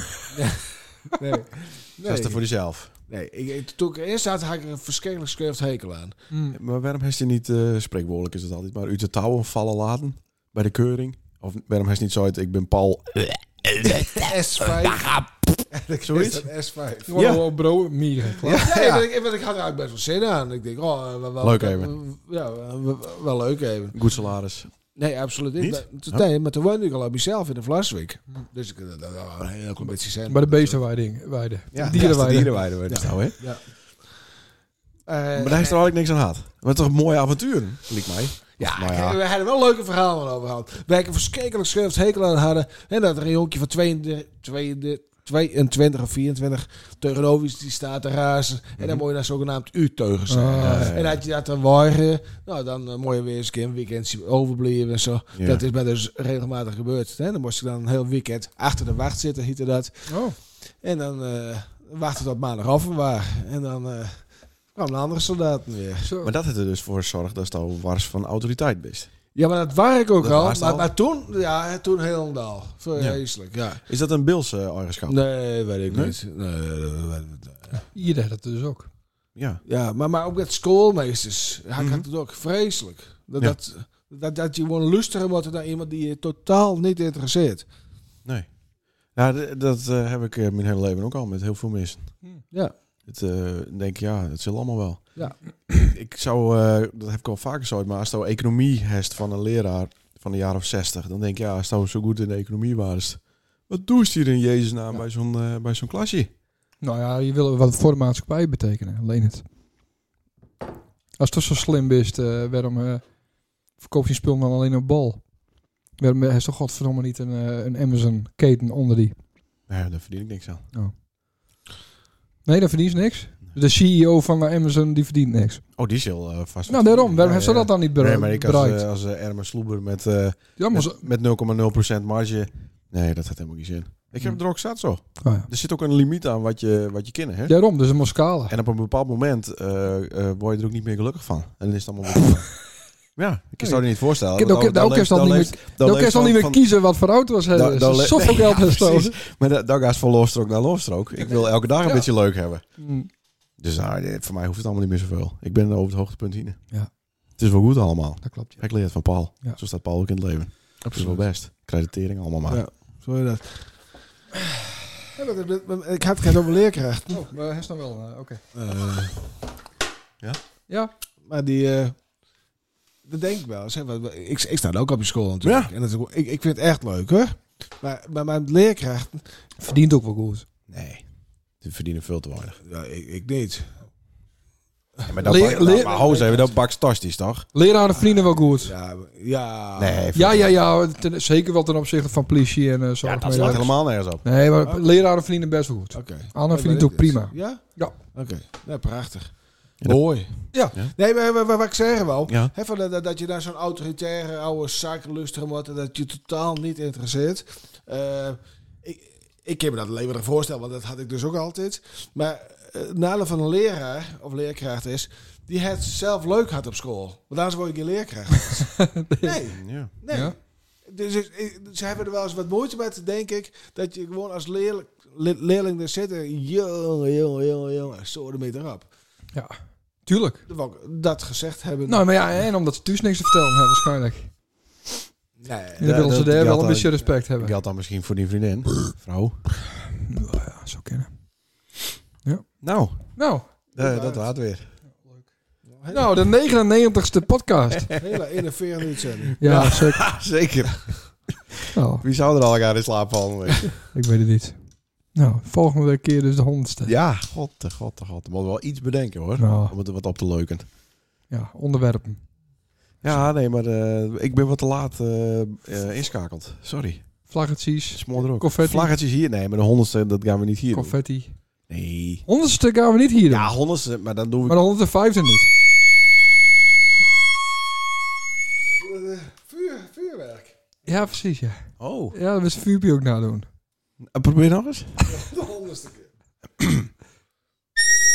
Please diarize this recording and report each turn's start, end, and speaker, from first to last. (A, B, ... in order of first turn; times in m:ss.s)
0:00.3-0:06.2 A
0:02.0-0:02.9 B
0:06.3-0:06.6 C
0:06.5-0:15.2 B
0:14.1-0:17.2 A
0:16.0-0:16.5 B
0:17.1-0:18.6 C
0:17.1-0:17.4 B
0:18.4-0:19.0 B
0:18.4-0:24.0 A
0:21.4-0:21.9 B
0:23.9-0:24.7 B
0:25.0-0:30.8 A
0:25.6-0:26.2 B
0:30.3-0:32.7 C
0:31.7-0:33.4 B
0:31.9-0:33.6 A
0:35.1-0:35.8 A
0:35.3-0:39.2 B
0:38.6-1:00.2 A
0:48.8-0:49.0 B
0:50.3-0:50.9 C
0:50.5-0:51.2 B
0:55.3-0:55.6 B
1:00.1-1:00.4 C
1:00.8-1:06.1 A
1:06.0-1:06.3 C
1:06.2-1:09.1 B
1:09.3-1:13.8 A
1:10.2-1:10.9 B
1:12.9-1:13.2 B
1:13.8-1:15.2 B
1:15.1-1:17.8 A
1:15.9-1:16.2 B
1:17.9-1:18.9 C
1:19.6-1:27.7 A
1:21.8-1:22.0 B
1:29.1-1:32.2 B
1:33.0-1:46.3 B
1:46.8-1:49.4 C
1:51.2-1:53.0 C
1:53.7-1:55.2 C
1:56.0-1:59.2 C
1:59.7-2:00.6 B
2:02.4-2:05.6 C
2:05.8-2:17.6 B
2:06.7-2:08.8 C
2:10.6-2:11.0 C
2:15.2-2:15.5 C
2:17.5-2:18.5 C
2:18.5-2:26.8 B
2:23.6-2:29.2 C
2:27.4-2:32.6 B
2:31.2-2:32.1 C
2:32.6-2:33.1 C
2:33.6-2:36.6 B
2:37.4-2:42.6 B
2:38.2-2:39.6 C
2:40.9-2:41.2 A
2:42.5-2:43.7 A
2:45.1-2:47.3 A
2:47.1-2:48.4 C
2:48.5-2:49.2 A
2:51.2-2:52.0 A
2:53.0-2:59.2 A
2:55.4-2:55.7 B
2:59.6-3:00.4 C
3:00.7-3:01.0 B
3:01.6-3:02.6 B
3:02.6-3:03.7 A
3:05.0-3:06.6 A
3:05.1-3:07.5 B
3:05.2-3:06.0 C
3:07.5-3:08.7 C
3:08.6-3:10.1 A
3:09.8-3:10.5 B
3:10.1-3:17.9 C
3:13.0-3:14.2 B
3:13.3-3:13.7 A
3:14.6-3:14.9 A
3:15.9-3:40.3 A
3:19.8-3:20.9 B
3:22.3-3:22.5 B
3:38.6-3:39.4 C
3:39.5-3:39.9 B
3:40.8-3:48.9 A
3:50.0-3:50.4 C
3:50.5-3:52.1 A
3:51.9-3:54.3 C
3:55.4-3:56.1 A
3:55.8-3:57.6 C
3:55.8-3:59.4 B
4:00.0-4:01.1 C
4:02.6-4:03.1 B
4:03.1-4:03.5 C
4:03.8-4:04.3 A
4:03.8-4:04.7 B
4:05.7-4:06.1 A
4:05.9-4:07.9 C
4:07.7-4:08.2 B
4:08.0-4:09.8 A
4:09.4-4:10.1 C
4:09.5-4:13.7 B
4:11.7-4:12.0 C
4:13.9-4:14.6 C
4:15.1-4:16.9 C
4:16.8-4:20.7 B
4:19.4-4:19.7 C
4:21.3-4:22.2 C
4:23.0-4:27.3 B
4:27.3-4:28.9 C
4:27.9-4:31.0 B
4:30.7-4:31.3 C
4:31.7-4:32.2 B
4:32.2-4:33.6 C
4:33.3-4:34.6 B
4:34.4-4:35.5 C
4:38.8-4:40.5 A
4:40.8-4:43.5 C
4:41.8-4:42.2 B
4:44.0-4:45.1 B
4:45.0-4:46.1 A
4:46.6-4:46.9 B